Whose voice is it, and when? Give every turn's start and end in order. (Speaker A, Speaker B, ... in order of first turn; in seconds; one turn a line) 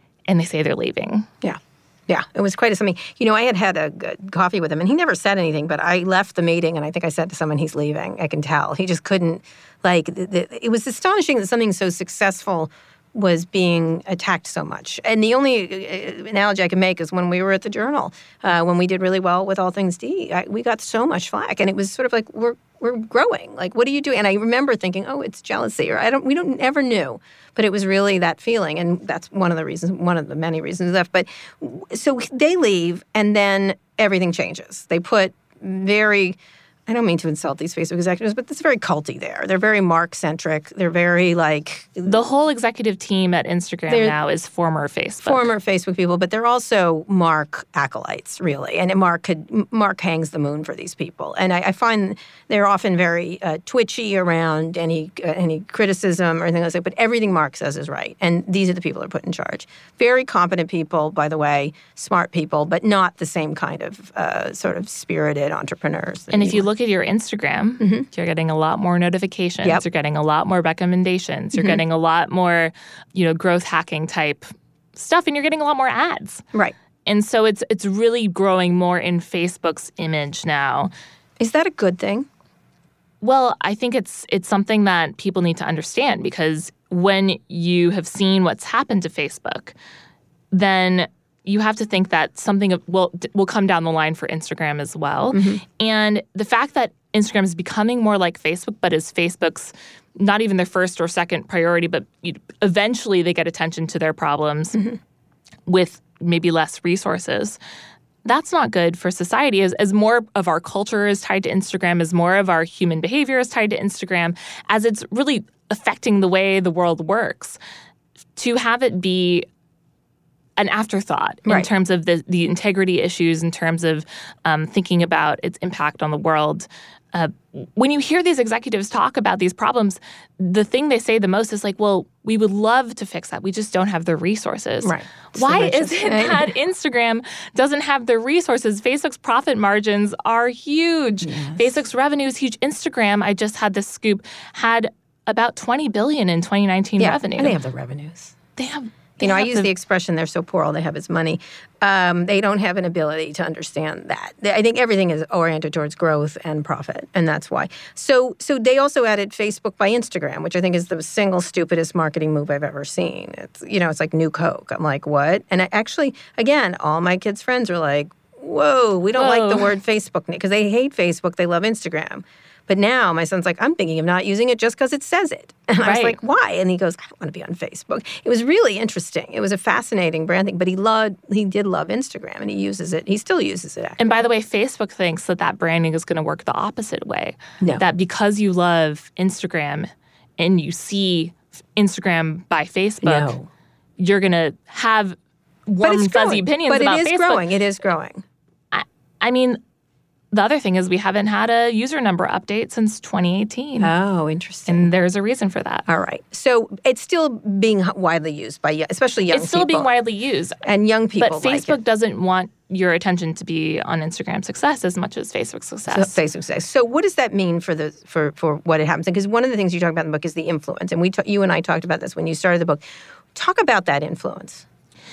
Speaker A: 0.3-1.3
Speaker B: 1.4-42.2
Speaker A: 42.1-45.5
Speaker B: 43.9-44.2
Speaker B: 45.2-66.7
Speaker A: 66.3-76.4
Speaker B: 67.8-68.1
Speaker B: 71.5-71.8
Speaker A: 77.1-80.9
Speaker B: 81.4-82.3
Speaker A: 83.2-89.7
Speaker A: 90.5-104.8
Speaker B: 95.3-95.6
Speaker A: 105.7-107.6
Speaker A: 108.2-117.6
Speaker A: 118.4-119.5
Speaker A: 120.6-147.6
Speaker B: 134.8-136.5
Speaker B: 141.2-141.7
Speaker B: 147.0-148.3
Speaker A: 148.6-149.7
Speaker B: 149.2-184.0
Speaker A: 169.2-169.7
Speaker A: 175.8-176.2
Speaker A: 184.0-193.4
Speaker B: 193.0-193.5
Speaker A: 194.0-197.4
Speaker B: 195.8-198.2
Speaker A: 198.7-199.6
Speaker A: 200.3-203.9
Speaker B: 203.8-204.9
Speaker A: 204.7-205.9
Speaker B: 205.9-209.9
Speaker A: 209.3-210.6
Speaker B: 210.6-211.8
Speaker A: 211.2-216.2
Speaker B: 215.9-222.8
Speaker B: 223.3-224.7